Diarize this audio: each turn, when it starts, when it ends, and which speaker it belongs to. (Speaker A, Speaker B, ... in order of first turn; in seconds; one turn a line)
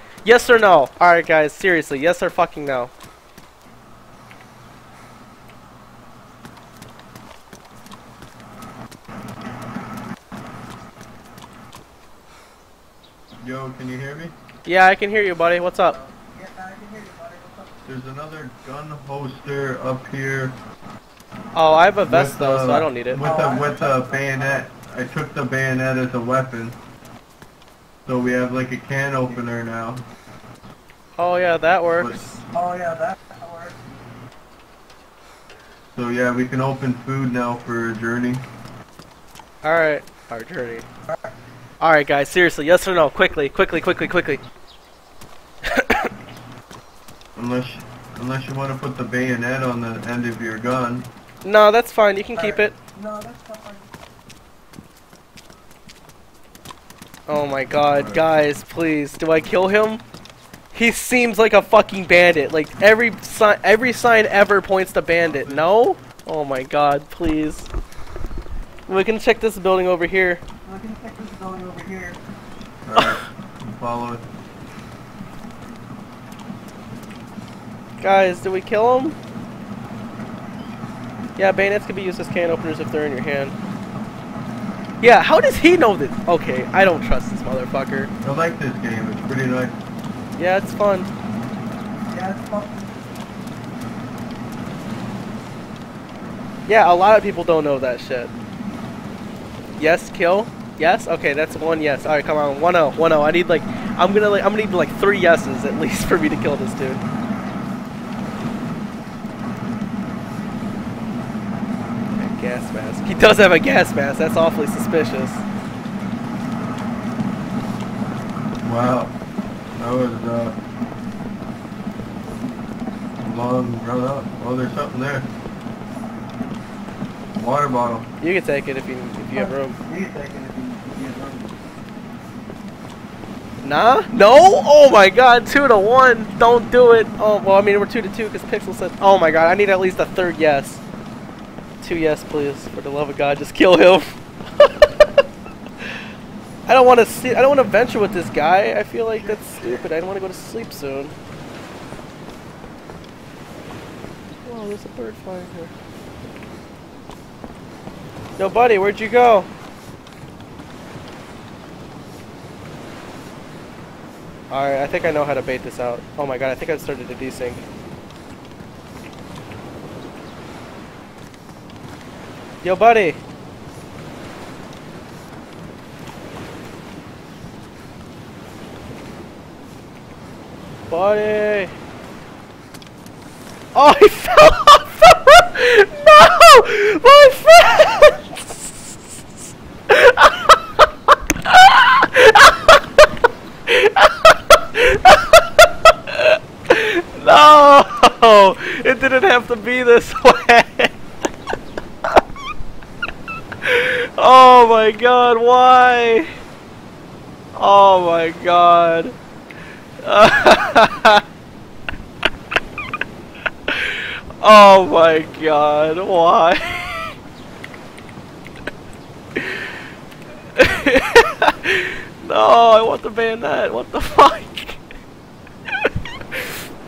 Speaker A: 0.2-2.9
Speaker B: 13.4-14.3
Speaker A: 14.7-16.0
Speaker C: 15.8-17.7
Speaker B: 17.9-20.6
Speaker A: 21.5-23.2
Speaker B: 22.0-26.8
Speaker C: 23.2-24.7
Speaker B: 28.1-30.0
Speaker A: 31.2-32.4
Speaker B: 32.0-32.2
Speaker C: 32.5-33.8
Speaker B: 35.9-38.5
Speaker A: 39.6-40.9
Speaker A: 41.8-44.4
Speaker A: 45.6-46.1
Speaker B: 47.4-51.1
Speaker A: 51.4-52.8
Speaker C: 52.4-53.9
Speaker A: 57.3-60.0
Speaker B: 57.9-58.3
Speaker A: 60.7-67.7
Speaker B: 65.2-65.7
Speaker A: 68.9-70.4
Speaker C: 70.7-72.2
Speaker B: 72.8-74.2
Speaker A: 78.0-79.2
Speaker A: 81.4-83.5
Speaker A: 85.0-88.1
Speaker B: 88.2-89.8
Speaker A: 90.4-91.1
Speaker C: 92.1-92.9
Speaker A: 96.7-98.3
Speaker A: 99.8-107.0
Speaker A: 112.1-115.4
Speaker B: 118.6-119.1
Speaker B: 119.8-120.6
Speaker B: 123.2-125.3
Speaker B: 127.3-128.1
Speaker A: 128.2-129.8
Speaker C: 129.3-131.6
Speaker A: 133.6-140.8
Speaker A: 141.8-145.2
Speaker A: 146.7-151.1
Speaker C: 149.1-149.9
Speaker A: 154.4-155.7
Speaker A: 158.4-159.5
Speaker A: 164.5-167.6
Speaker A: 172.6-173.2
Speaker A: 180.9-181.7
Speaker A: 183.7-189.3
Speaker A: 189.9-192.8
Speaker A: 193.7-200.9
Speaker A: 203.6-206.3
Speaker A: 207.6-209.2
Speaker A: 210.0-211.2
Speaker A: 213.7-217.2
Speaker A: 219.4-219.8
Speaker A: 220.5-224.8
Speaker A: 225.8-226.5